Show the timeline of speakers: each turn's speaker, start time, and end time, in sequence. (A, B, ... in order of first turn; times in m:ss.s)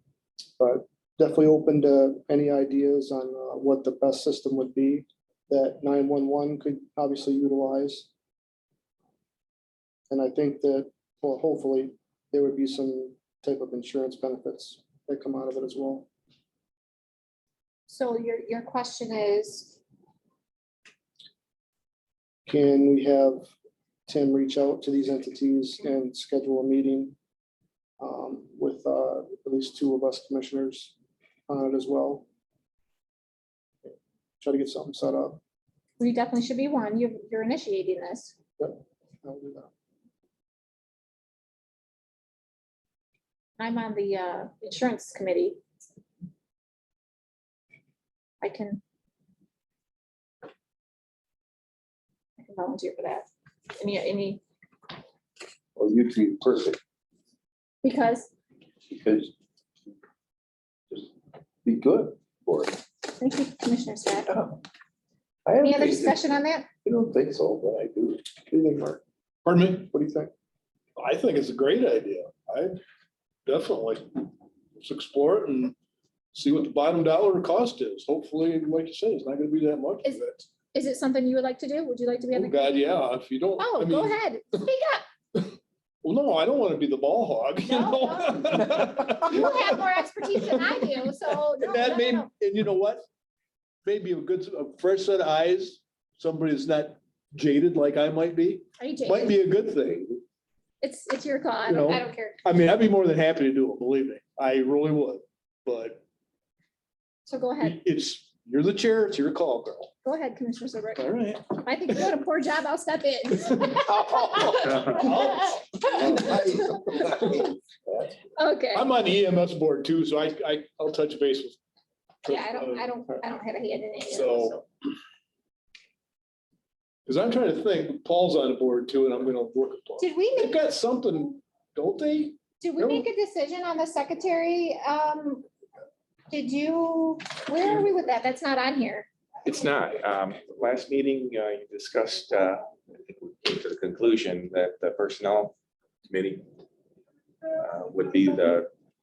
0:00.6-0:08.1 A
0:10.1-0:16.1 A
0:17.9-0:19.8 B
0:22.5-0:23.5 A
0:24.1-0:27.2 A
0:28.0-0:30.9 A
0:31.5-0:32.2 A
0:33.8-0:35.4 A
0:36.0-0:38.3 B
0:38.6-0:39.7 A
0:43.6-0:45.6 B
0:48.4-0:48.8 B
0:52.4-0:54.4 B
0:55.8-0:56.8 C
0:57.8-0:58.3 B
0:58.9-0:59.3 C
1:01.6-1:02.8 C
1:03.0-1:04.3 B
1:04.3-1:04.6 C
1:05.4-1:06.3 C
1:05.6-1:06.7 B
1:06.8-1:08.3 C
1:08.5-1:09.0 A
1:09.4-1:09.9 D
1:09.9-1:10.3 A
1:11.0-1:12.8 D
1:13.4-1:14.0 D
1:14.8-1:15.7 D
1:16.3-1:20.5 D
1:20.0-1:22.8 B
1:22.3-1:24.2 D
1:23.6-1:25.0 B
1:26.0-1:31.0 D
1:27.6-1:32.3 B
1:31.6-1:33.0 D
1:33.8-1:40.2 D
1:38.8-1:39.3 B
1:40.8-1:42.4 B
1:41.6-1:46.0 D
1:47.2-1:47.8 B
1:47.6-1:49.9 D
1:50.0-1:57.0 B
1:51.0-1:51.6 D
1:53.5-1:53.8 D
1:54.1-1:54.4 C
1:54.4-1:57.5 D
1:56.0-1:58.1 C
1:58.4-1:58.9 B
1:58.7-2:01.6 D
2:02.2-2:02.9 D
2:02.3-2:04.6 B
2:04.1-2:04.6 D
2:07.0-2:13.1 D
2:10.0-2:10.6 B
2:12.6-2:15.5 B
2:16.3-2:19.1 B
2:19.4-2:25.5 E
2:26.1-2:26.4 E
2:27.5-2:28.7 E